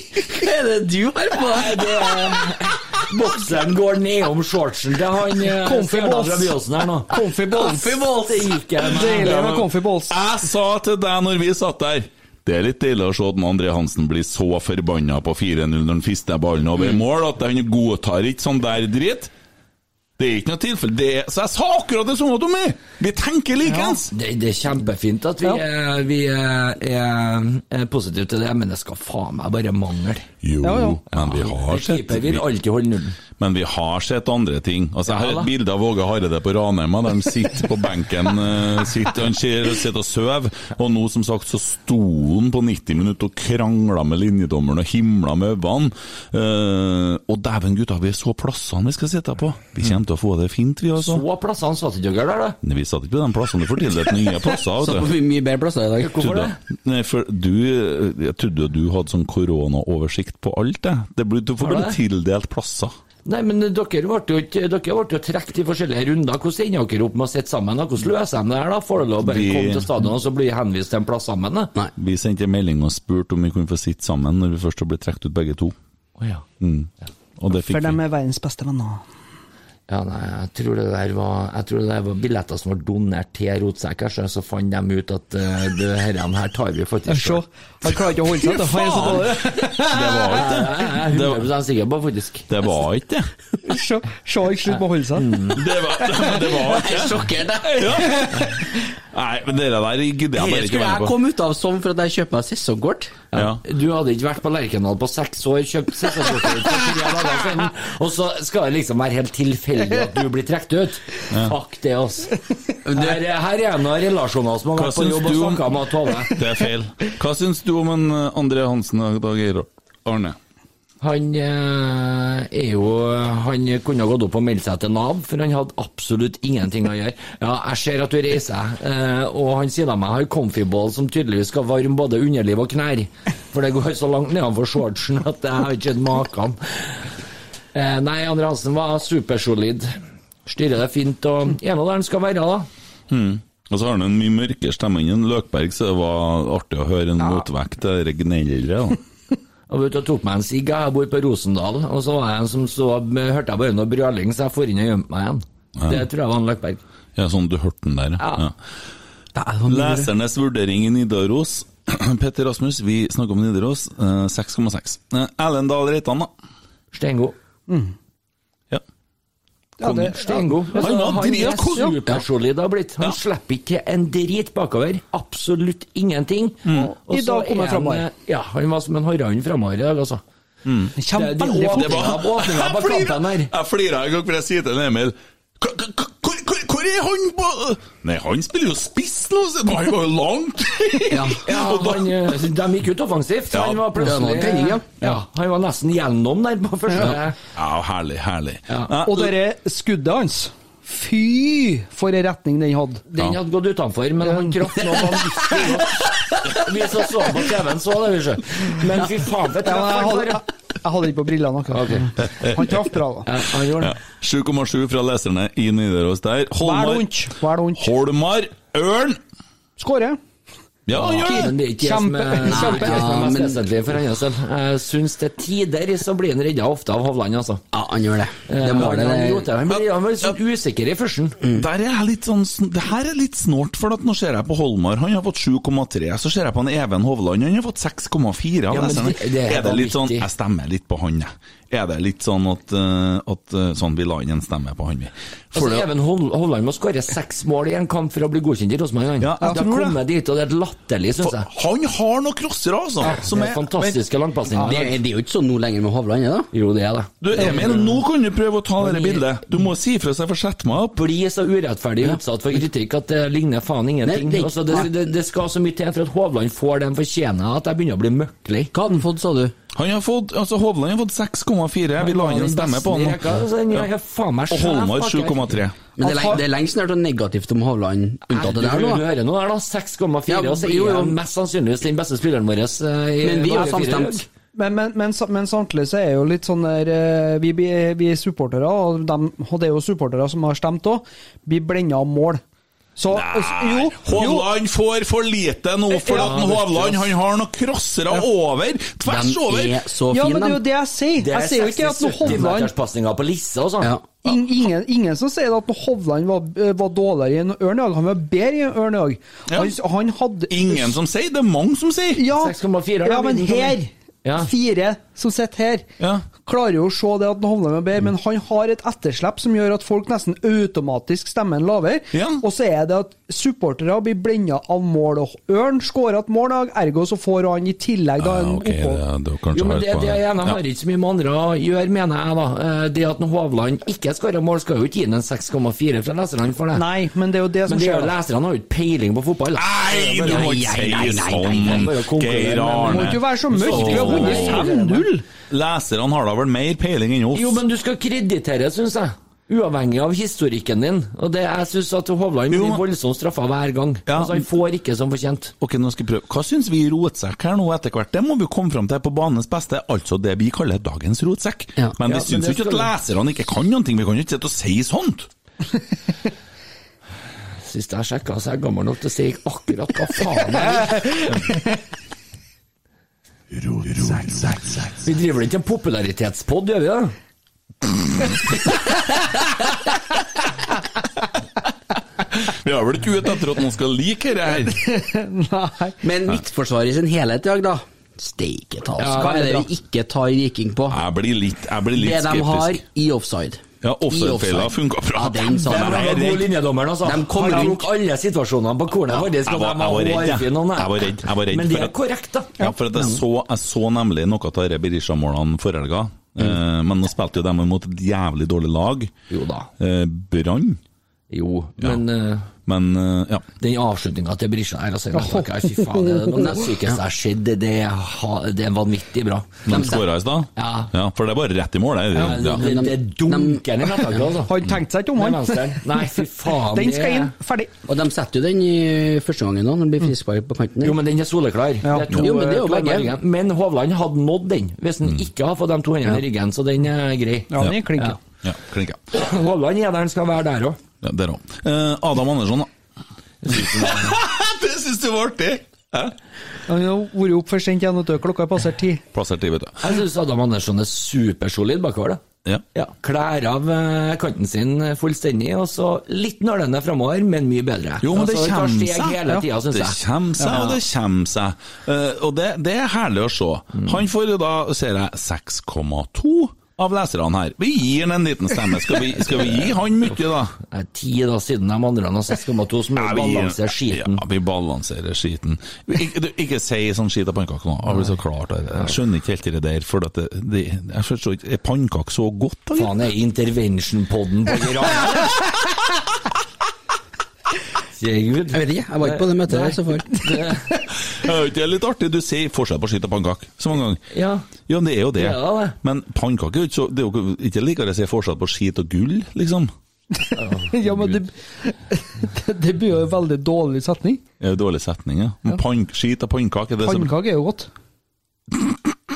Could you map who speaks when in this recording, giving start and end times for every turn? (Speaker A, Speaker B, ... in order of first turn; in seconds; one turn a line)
Speaker A: 0.2-2.8
Speaker B: 1.4-9.6
Speaker C: 5.5-6.5
Speaker C: 7.1-7.8
Speaker A: 7.5-8.6
Speaker C: 8.8-10.2
Speaker D: 9.2-19.3
Speaker D: 20.2-24.1
Speaker C: 23.7-24.0
Speaker B: 24.1-30.3
Speaker D: 30.4-32.4
Speaker C: 30.6-31.0
Speaker B: 31.1-33.2
Speaker D: 33.4-51.2
Speaker B: 35.1-35.5
Speaker B: 51.0-52.6
Speaker D: 52.6-55.1
Speaker A: 54.8-56.4
Speaker B: 56.0-56.6
Speaker D: 56.2-62.9
Speaker B: 61.6-62.0
Speaker B: 63.2-71.7
Speaker D: 69.2-69.9
Speaker D: 72.0-75.7
Speaker B: 76.2-76.4
Speaker D: 76.6-78.0
Speaker C: 77.7-79.0
Speaker B: 79.9-87.4
Speaker C: 87.1-90.7
Speaker D: 88.5-91.4
Speaker B: 90.3-92.5
Speaker D: 92.5-93.3
Speaker C: 93.6-95.3
Speaker B: 95.2-95.6
Speaker D: 95.5-98.6
Speaker A: 96.6-98.3
Speaker D: 99.1-101.2
Speaker A: 100.3-103.1
Speaker B: 103.3-116.4
Speaker D: 103.3-103.6
Speaker A: 112.8-113.2
Speaker D: 114.8-120.4
Speaker B: 121.0-137.0
Speaker B: 137.7-139.9
Speaker B: 140.4-142.7
Speaker D: 143.1-149.0
Speaker B: 147.2-147.4
Speaker B: 149.7-156.8
Speaker D: 155.8-156.0
Speaker D: 157.2-158.5
Speaker B: 158.2-158.5
Speaker A: 159.3-160.1
Speaker D: 159.7-166.3
Speaker B: 166.9-167.3
Speaker C: 167.7-167.9
Speaker C: 169.8-171.9
Speaker D: 169.8-172.2
Speaker B: 170.1-180.2
Speaker D: 176.6-176.9
Speaker C: 176.7-178.0
Speaker D: 180.6-181.0
Speaker C: 181.0-182.1
Speaker B: 181.1-183.5
Speaker D: 181.5-192.3
Speaker A: 191.1-191.4
Speaker B: 191.4-197.4
Speaker D: 193.5-194.0
Speaker A: 193.9-194.8
Speaker D: 197.5-199.3
Speaker C: 199.0-203.0
Speaker B: 203.1-210.4
Speaker C: 204.2-205.0
Speaker C: 209.6-213.3
Speaker B: 211.7-212.2
Speaker D: 212.2-212.7
Speaker B: 213.2-214.0
Speaker D: 213.8-219.2
Speaker C: 216.6-217.8
Speaker C: 219.8-220.2
Speaker D: 220.9-221.5
Speaker B: 220.9-227.6
Speaker C: 221.2-223.1
Speaker A: 222.4-223.6
Speaker A: 227.7-229.5
Speaker B: 228.5-231.4
Speaker A: 231.4-231.7
Speaker D: 231.5-245.9
Speaker B: 238.7-240.3
Speaker B: 245.5-251.5
Speaker D: 249.2-250.0
Speaker D: 251.2-253.6
Speaker B: 253.0-254.9
Speaker C: 253.0-253.9
Speaker A: 254.5-256.5
Speaker B: 256.5-258.0
Speaker D: 257.2-261.0
Speaker B: 258.8-259.3
Speaker B: 260.9-268.7
Speaker A: 264.0-265.0
Speaker A: 268.7-269.5
Speaker D: 269.7-273.9
Speaker B: 272.0-275.6
Speaker D: 274.5-275.8
Speaker A: 276.0-279.0
Speaker C: 276.0-276.4
Speaker B: 278.3-284.2
Speaker A: 280.3-281.2
Speaker A: 283.2-284.2
Speaker C: 284.5-292.4
Speaker C: 293.0-294.5
Speaker D: 293.1-299.9
Speaker C: 296.0-296.3
Speaker B: 296.1-297.1
Speaker A: 299.1-300.6
Speaker C: 300.1-302.7
Speaker B: 301.2-304.0
Speaker C: 304.2-310.9
Speaker D: 309.5-309.7
Speaker D: 310.5-312.2
Speaker C: 312.2-315.8
Speaker B: 312.3-314.5
Speaker D: 316.0-316.3
Speaker C: 316.4-329.0
Speaker D: 322.1-322.4
Speaker D: 328.2-330.6
Speaker B: 329.5-336.9
Speaker C: 336.7-338.1
Speaker B: 337.6-340.8
Speaker D: 339.6-344.8
Speaker A: 340.1-341.9
Speaker B: 341.6-345.1
Speaker C: 342.9-345.2
Speaker D: 345.5-347.6
Speaker B: 347.3-355.5
Speaker D: 352.5-352.8
Speaker D: 354.1-354.4
Speaker D: 355.6-365.3
Speaker B: 362.0-362.9
Speaker B: 367.6-371.1
Speaker C: 370.8-371.6
Speaker B: 374.1-377.1
Speaker D: 374.1-374.6
Speaker D: 382.3-384.8
Speaker C: 384.9-385.9
Speaker A: 386.0-391.0
Speaker B: 389.0-389.5
Speaker C: 389.1-389.7
Speaker D: 390.9-392.8
Speaker A: 391.9-396.3
Speaker D: 393.8-396.5
Speaker B: 395.5-402.6
Speaker A: 397.0-397.9
Speaker D: 399.2-401.9
Speaker D: 402.6-409.1
Speaker B: 409.3-409.7
Speaker D: 409.8-410.8
Speaker B: 411.3-412.5
Speaker D: 412.6-413.4
Speaker B: 413.6-420.0
Speaker C: 415.1-416.6
Speaker D: 419.6-422.6
Speaker B: 420.6-420.9
Speaker B: 422.1-424.6
Speaker A: 422.3-424.3
Speaker C: 424.4-427.7
Speaker B: 425.1-427.3
Speaker A: 427.9-431.0
Speaker B: 430.8-438.1
Speaker C: 431.8-432.1
Speaker A: 432.1-433.1
Speaker C: 437.5-438.2
Speaker D: 438.4-439.1
Speaker B: 439.1-440.8
Speaker D: 441.0-442.7
Speaker B: 443.4-444.2
Speaker D: 443.4-446.1
Speaker C: 446.7-449.0
Speaker D: 449.1-449.8
Speaker B: 449.8-452.2
Speaker B: 452.7-460.0
Speaker D: 458.0-470.5
Speaker C: 460.4-460.7
Speaker B: 470.6-474.2
Speaker D: 472.9-482.9
Speaker B: 482.8-485.4
Speaker B: 487.9-490.7
Speaker A: 488.5-490.4
Speaker D: 490.9-494.1
Speaker B: 494.1-494.5
Speaker D: 494.6-499.7
Speaker B: 495.1-495.8
Speaker C: 500.2-504.2
Speaker B: 500.3-501.2
Speaker D: 504.4-507.1
Speaker C: 506.8-507.7